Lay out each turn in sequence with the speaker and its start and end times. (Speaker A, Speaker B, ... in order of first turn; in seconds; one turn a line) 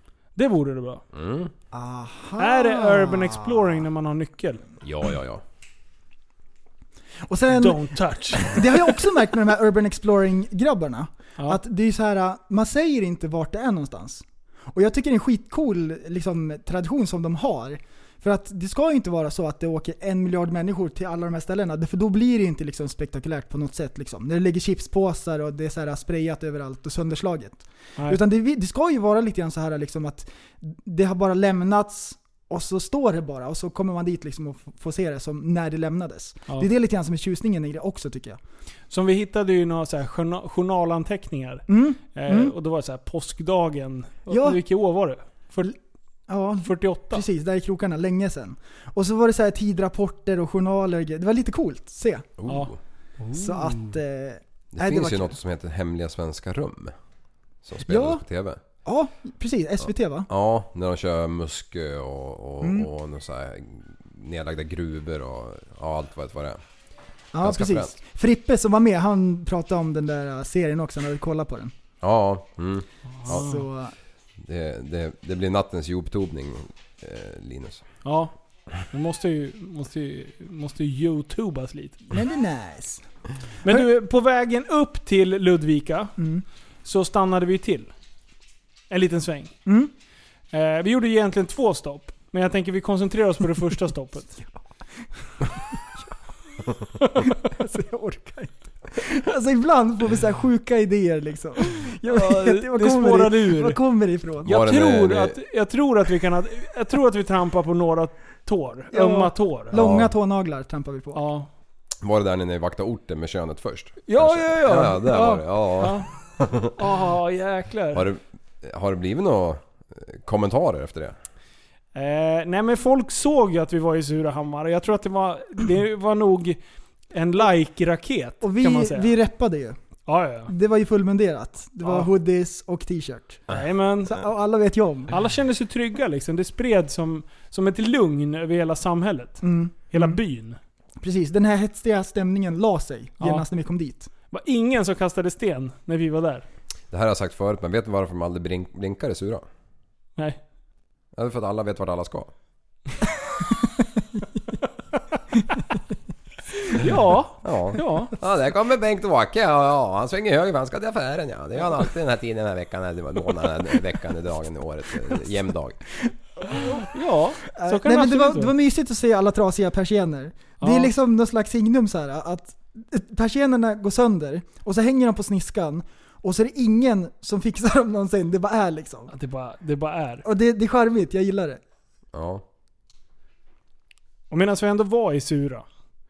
Speaker A: 0.4-1.0
Speaker B: 1.1-1.5
Speaker C: 1.7-3.9
Speaker A: 2.4-4.6
Speaker B: 4.8-5.4
Speaker C: 7.3-38.4
Speaker A: 7.5-9.1
Speaker A: 38.9-45.7
Speaker C: 41.7-42.5
Speaker C: 44.3-44.6
Speaker C: 46.3-52.3
Speaker A: 46.6-47.2
Speaker B: 52.4-52.8
Speaker A: 52.5-53.9
Speaker C: 53.3-55.4
Speaker B: 54.7-56.9
Speaker B: 57.6-58.6
Speaker C: 57.9-58.2
Speaker C: 58.8-60.3
Speaker B: 60.3-66.6
Speaker C: 62.6-62.9
Speaker C: 67.3-71.7
Speaker B: 67.4-67.9
Speaker B: 72.0-73.5
Speaker A: 73.1-73.6
Speaker C: 73.3-73.9
Speaker B: 74.4-77.8
Speaker A: 78.0-78.3
Speaker A: 78.9-82.1
Speaker C: 82.1-83.0
Speaker A: 83.6-86.2
Speaker C: 86.2-86.4
Speaker A: 86.8-87.9
Speaker A: 88.9-89.5
Speaker C: 89.7-89.9
Speaker A: 90.5-94.4
Speaker A: 97.0-97.4
Speaker C: 97.5-104.6
Speaker A: 102.0-103.8
Speaker B: 104.5-105.4
Speaker A: 104.5-109.8
Speaker C: 108.9-111.2
Speaker B: 109.7-110.1
Speaker A: 111.1-111.5
Speaker B: 112.0-116.7
Speaker A: 114.1-116.1
Speaker A: 116.7-118.0
Speaker B: 117.9-121.2
Speaker A: 122.0-126.6
Speaker A: 127.1-129.1
Speaker C: 128.4-129.8
Speaker A: 130.1-130.5
Speaker C: 130.5-133.4
Speaker A: 131.8-132.1
Speaker A: 133.5-134.2
Speaker C: 134.1-135.1
Speaker A: 135.1-140.6
Speaker C: 139.4-140.2
Speaker C: 141.0-144.1
Speaker A: 143.2-143.5
Speaker A: 144.3-146.4
Speaker B: 146.9-149.4
Speaker B: 151.2-152.3
Speaker A: 156.5-158.2
Speaker B: 157.4-165.8
Speaker C: 166.5-166.8
Speaker A: 166.5-168.5
Speaker C: 167.6-179.1
Speaker A: 170.6-170.9
Speaker A: 179.1-180.2
Speaker C: 180.2-181.6
Speaker B: 182.1-182.4
Speaker A: 184.3-185.7